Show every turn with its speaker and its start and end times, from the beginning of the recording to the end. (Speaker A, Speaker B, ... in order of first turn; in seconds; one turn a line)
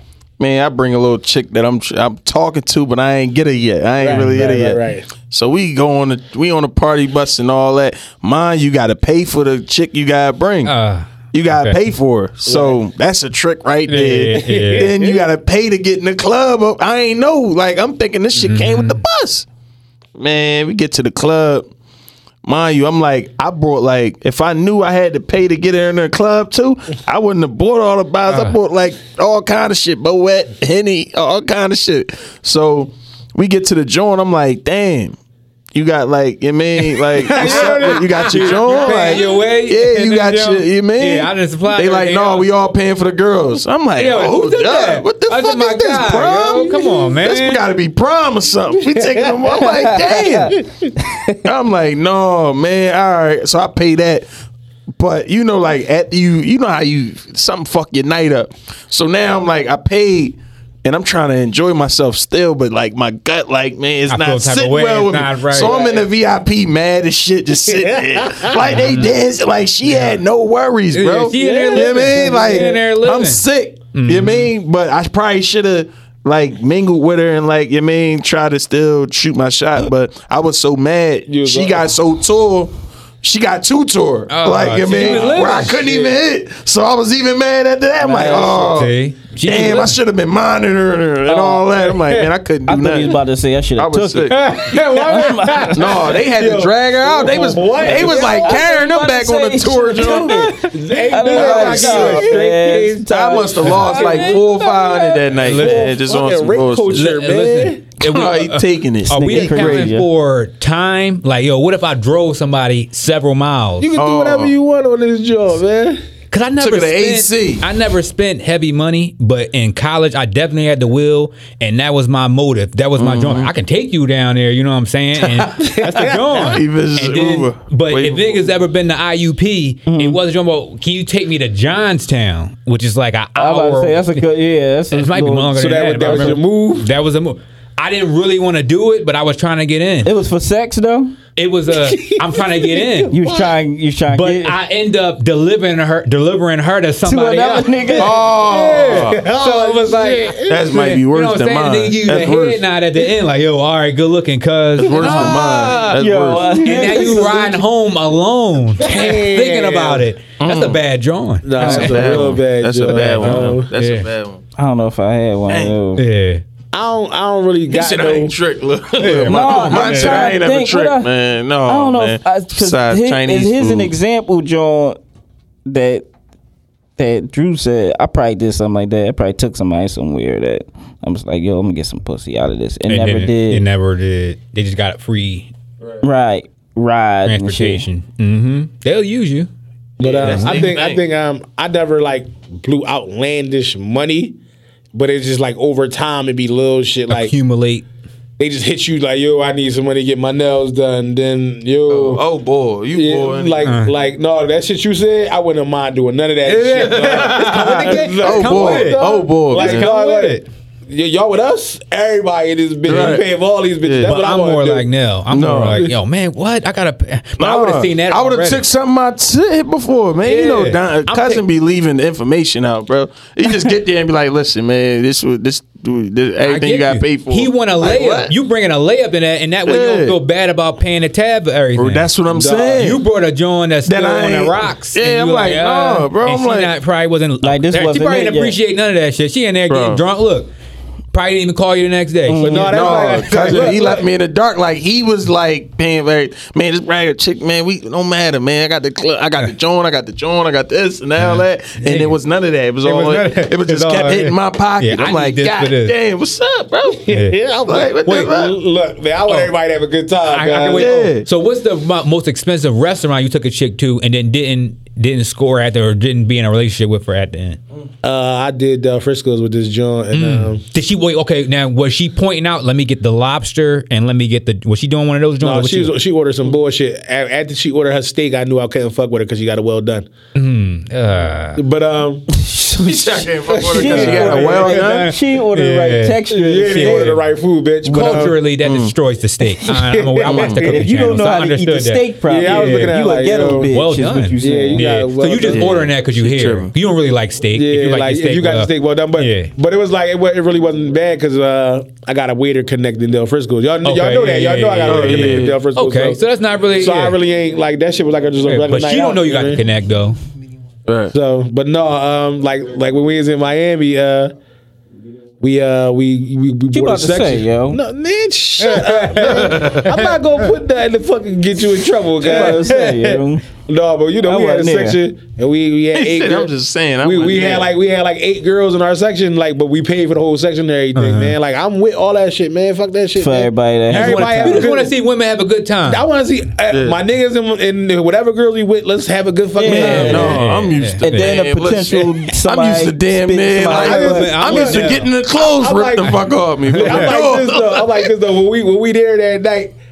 Speaker A: 0.4-10.7
Speaker B: 4.0-5.1
Speaker C: 10.6-11.8
Speaker A: 11.3-19.4
Speaker B: 12.4-12.8
Speaker C: 13.9-14.9
Speaker B: 14.3-15.2
Speaker C: 18.4-19.0
Speaker A: 20.1-21.7
Speaker A: 22.4-35.1
Speaker C: 28.3-28.6
Speaker A: 35.7-50.6
Speaker C: 37.1-42.5
Speaker B: 37.2-39.4
Speaker C: 44.0-47.6
Speaker B: 48.9-49.8
Speaker A: 51.4-54.3
Speaker A: 55.0-93.2
Speaker C: 64.1-65.8
Speaker B: 65.6-66.0
Speaker B: 67.7-68.7
Speaker C: 68.6-69.1
Speaker C: 69.8-70.2
Speaker C: 70.9-74.5
Speaker B: 71.4-72.8
Speaker B: 81.3-81.9
Speaker C: 84.3-85.9
Speaker B: 85.0-86.1
Speaker D: 88.0-88.8
Speaker C: 88.6-90.0
Speaker D: 91.3-91.6
Speaker D: 92.7-96.1
Speaker A: 93.8-94.5
Speaker C: 94.3-95.7
Speaker B: 94.4-98.6
Speaker A: 95.7-100.5
Speaker D: 97.8-105.3
Speaker B: 100.1-103.0
Speaker C: 101.2-102.5
Speaker A: 101.3-102.4
Speaker A: 103.1-107.2
Speaker C: 103.6-104.3
Speaker B: 103.9-104.4
Speaker C: 105.4-105.9
Speaker B: 105.5-107.8
Speaker C: 106.9-113.9
Speaker A: 108.0-110.0
Speaker D: 109.1-110.1
Speaker B: 113.8-116.0
Speaker A: 114.0-114.5
Speaker C: 116.3-134.2
Speaker A: 116.6-117.7
Speaker A: 123.0-123.5
Speaker A: 125.2-125.7
Speaker B: 125.6-126.6
Speaker A: 126.3-128.6
Speaker D: 129.8-130.2
Speaker D: 133.3-136.4
Speaker C: 134.9-140.1
Speaker B: 135.5-136.9
Speaker D: 140.0-141.2
Speaker C: 141.3-143.1
Speaker B: 141.7-143.5
Speaker D: 143.1-144.6
Speaker C: 144.1-156.0
Speaker D: 147.0-148.2
Speaker A: 147.9-149.2
Speaker B: 148.3-150.8
Speaker A: 150.4-152.6
Speaker A: 154.8-156.9
Speaker B: 155.0-155.3
Speaker D: 155.0-157.6
Speaker C: 156.6-162.3
Speaker B: 156.8-157.1
Speaker B: 158.8-160.0
Speaker A: 160.4-160.8
Speaker B: 161.4-163.7
Speaker D: 161.6-162.0
Speaker A: 161.6-164.4
Speaker C: 163.0-164.1
Speaker D: 164.6-166.0
Speaker A: 165.5-165.8
Speaker C: 166.0-166.4
Speaker B: 166.7-168.3
Speaker A: 167.7-173.9
Speaker C: 169.0-170.4
Speaker D: 169.2-171.1
Speaker D: 171.7-175.0
Speaker D: 175.7-176.1
Speaker D: 177.0-183.6
Speaker C: 182.9-185.5
Speaker D: 186.0-187.8
Speaker C: 187.2-189.5
Speaker A: 190.0-191.0
Speaker B: 190.0-194.4
Speaker C: 190.2-190.7
Speaker B: 194.9-197.3
Speaker C: 197.1-197.8
Speaker B: 198.4-202.2
Speaker A: 201.9-203.7
Speaker B: 202.9-214.8
Speaker C: 203.6-203.9
Speaker C: 206.4-210.4
Speaker A: 206.7-209.9
Speaker A: 212.8-213.2
Speaker A: 213.8-214.2
Speaker C: 214.0-218.6
Speaker A: 215.3-215.9
Speaker A: 217.4-228.3
Speaker C: 220.2-221.4
Speaker C: 226.4-232.1
Speaker A: 229.7-230.2
Speaker A: 231.8-233.0
Speaker B: 232.3-232.9
Speaker C: 232.8-240.5
Speaker A: 233.8-236.7
Speaker D: 237.4-238.6
Speaker A: 239.7-240.0
Speaker C: 241.1-243.8
Speaker D: 242.3-243.0
Speaker B: 242.4-244.0
Speaker A: 242.7-257.1
Speaker C: 251.2-252.2
Speaker C: 252.8-255.9
Speaker B: 256.9-261.0
Speaker C: 257.1-257.4
Speaker A: 257.6-258.6
Speaker C: 258.1-258.3
Speaker C: 259.2-259.5
Speaker C: 260.2-267.6
Speaker A: 260.7-261.3
Speaker B: 268.0-270.6
Speaker C: 270.1-275.9
Speaker B: 275.4-280.1
Speaker C: 280.3-281.6
Speaker B: 281.6-282.3
Speaker D: 282.4-282.9
Speaker A: 282.8-285.1
Speaker B: 283.5-284.7
Speaker D: 283.6-287.1
Speaker C: 283.8-287.2
Speaker B: 286.3-288.4
Speaker C: 287.8-293.0
Speaker A: 288.6-288.9
Speaker B: 289.6-290.9
Speaker A: 290.2-290.6
Speaker D: 290.5-294.9
Speaker B: 292.2-293.7
Speaker C: 293.7-299.5
Speaker B: 294.4-295.7
Speaker A: 295.4-296.7
Speaker B: 297.5-306.2
Speaker C: 303.8-307.2
Speaker A: 304.8-305.6
Speaker B: 306.7-309.6
Speaker C: 308.4-310.2
Speaker A: 310.9-311.1
Speaker B: 311.1-314.3
Speaker B: 315.4-334.9
Speaker D: 316.7-317.8
Speaker C: 318.6-320.5
Speaker A: 319.2-319.9
Speaker D: 322.2-323.4
Speaker D: 324.2-325.0
Speaker A: 325.9-327.7
Speaker C: 330.9-331.4
Speaker D: 333.1-334.7
Speaker C: 333.9-336.0
Speaker B: 335.9-340.4
Speaker A: 336.7-337.0
Speaker D: 339.5-340.4
Speaker C: 339.7-341.4
Speaker A: 339.7-348.1
Speaker D: 341.0-344.4
Speaker B: 343.6-349.8
Speaker C: 343.7-345.1
Speaker C: 346.7-347.2